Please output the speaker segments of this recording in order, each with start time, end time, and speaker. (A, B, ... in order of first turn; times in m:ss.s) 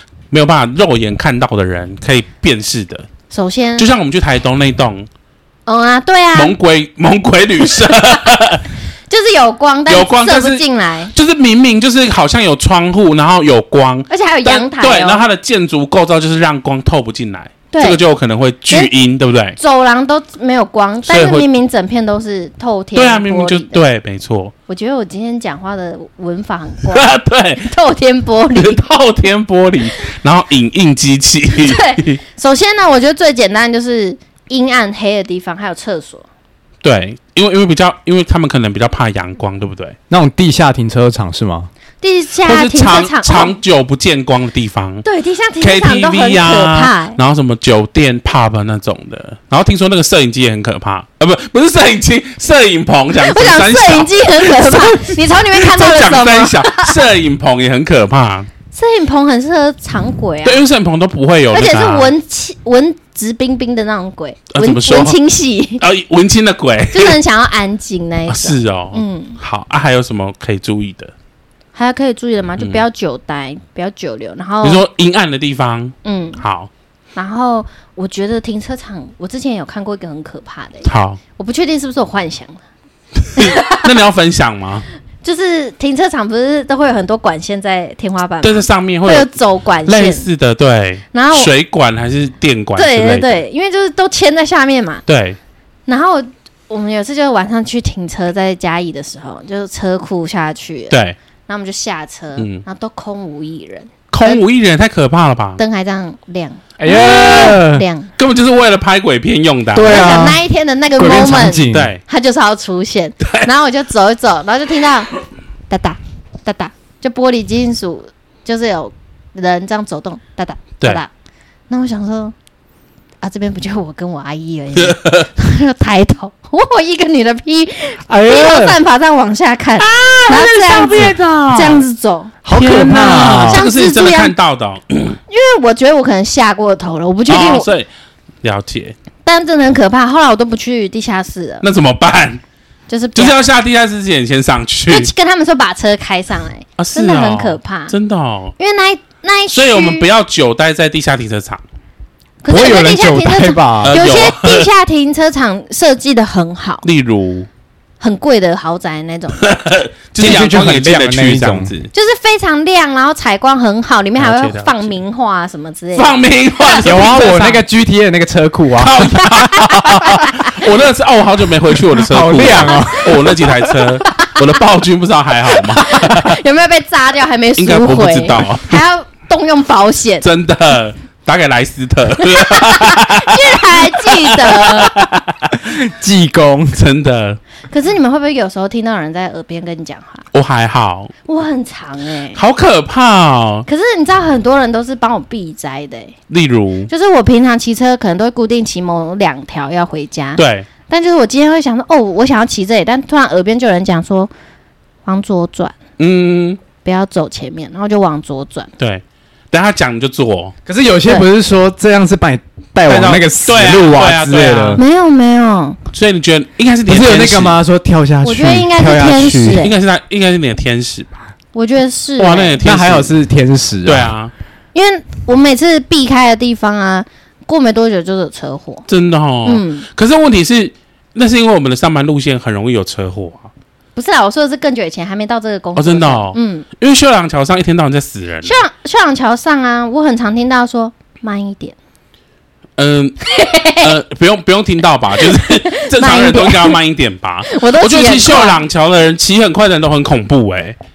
0:00.3-0:03.1 A
0:03.3-0:03.9 B
0:03.8-0:05.1 A
0:05.6-0:06.5 B
0:06.3-0:08.6 A
0:09.1-0:11.1 B
0:09.9-0:19.6 A
0:14.1-0:15.2 B
0:17.7-0:18.0 B
0:19.6-0:23.8 B
0:21.1-0:21.5 A
0:22.9-0:24.5 A
0:24.7-0:28.8 B
0:26.9-0:27.7 A
0:28.6-0:32.2 A
0:31.6-0:36.3 B
0:36.8-0:40.0 A
0:40.1-0:41.7 C
0:42.0-0:43.5 B
0:42.4-0:45.0 A
0:45.0-0:47.2 B
0:45.6-0:58.5 A
0:53.2-0:57.0 B
0:58.7-1:00.6 B
1:00.4-1:02.1 A
1:01.5-1:05.8 B
1:04.5-1:05.2 A
1:05.8-1:07.2 A
1:06.9-1:09.4 B
1:08.3-1:11.1 A
1:11.7-1:14.8 B
1:14.6-1:16.7 A
1:16.0-1:16.4 B
1:17.2-1:22.6 B
1:20.8-1:21.2 A
1:23.2-1:24.8 A
1:23.4-1:23.9 B
1:25.2-1:30.3 B
1:28.4-1:29.3 A
1:29.8-1:33.4 A
1:31.1-1:31.5 B
1:32.8-1:35.0 B
1:35.1-1:35.4 A
1:35.9-1:41.0 B
1:40.9-1:41.2 A
1:41.5-1:44.4 B
1:42.4-1:42.6 A
1:44.1-1:45.6 A
1:45.6-1:48.1 B
1:46.8-1:47.8 C
1:46.8-1:47.6 A
1:48.2-1:50.1 A
1:49.7-1:50.4 C
1:49.8-1:55.1 B
1:51.0-1:51.9 C
1:51.7-1:52.0 A
1:55.7-2:01.1 B
2:01.7-2:02.3 B
2:03.2-2:14.3 B
2:04.8-2:05.3 A
2:08.1-2:08.8 C
2:09.8-2:11.8 A
2:10.3-2:11.2 C
2:12.4-2:13.6 C
2:12.5-2:15.2 A
2:15.3-2:17.7 B
2:17.3-2:17.9 A
2:18.4-2:18.9 A
2:19.2-2:21.6 B
2:21.6-2:22.4 A
2:22.9-2:23.4 B
2:23.1-2:25.1 A
2:24.9-2:27.9 B
2:26.8-2:28.5 A
2:28.6-2:30.1 B
2:29.5-2:31.6 A
2:32.4-2:36.8 B
2:32.5-2:34.0 C
2:33.8-2:34.7 A
2:36.8-2:37.5 A
2:38.0-2:39.4 B
2:39.4-2:41.9 A
2:40.2-2:41.7 C
2:41.9-2:46.8 B
2:44.2-2:45.0 A
2:45.9-2:47.6 A
2:46.8-2:49.7 C
2:48.8-2:56.4 A
2:49.5-2:50.7 B
2:52.0-2:53.5 C
2:52.7-2:53.0 B
2:54.0-2:54.4 B
2:55.5-3:00.2 B
2:57.6-2:58.8 A
3:00.2-3:05.3 A
3:02.2-3:05.1 B
3:05.5-3:06.8 C
3:06.7-3:07.4 A
3:07.7-3:10.2 B
3:10.3-3:11.1 A
3:11.2-3:12.4 B
3:12.3-3:13.6 A
3:13.7-3:16.2 B
3:16.3-3:16.9 A
3:16.9-3:24.3 B
3:20.4-3:20.7 A
3:25.0-3:25.7 B
3:26.0-3:26.6 A
3:26.8-3:28.7 B
3:28.8-3:30.5 A
3:30.6-3:34.8 C
3:32.9-3:34.8 A
3:34.8-3:35.8 B
3:35.9-3:37.6 A
3:36.9-3:39.6 C
3:38.2-3:39.7 B
3:39.4-3:41.1 A
3:41.5-3:42.6 B
3:42.2-3:43.1 A
3:42.6-3:44.1 C
3:43.8-3:44.3 A
3:44.7-3:48.8 B
3:48.9-3:53.5 A
3:49.4-3:49.8 B
3:54.0-3:56.6 B
3:55.8-3:58.6 A
3:58.4-4:01.7 B
4:02.8-4:03.2 A
4:03.2-4:03.9 B
4:03.8-4:10.8 A
4:05.2-4:06.8 B
4:07.4-4:08.6 B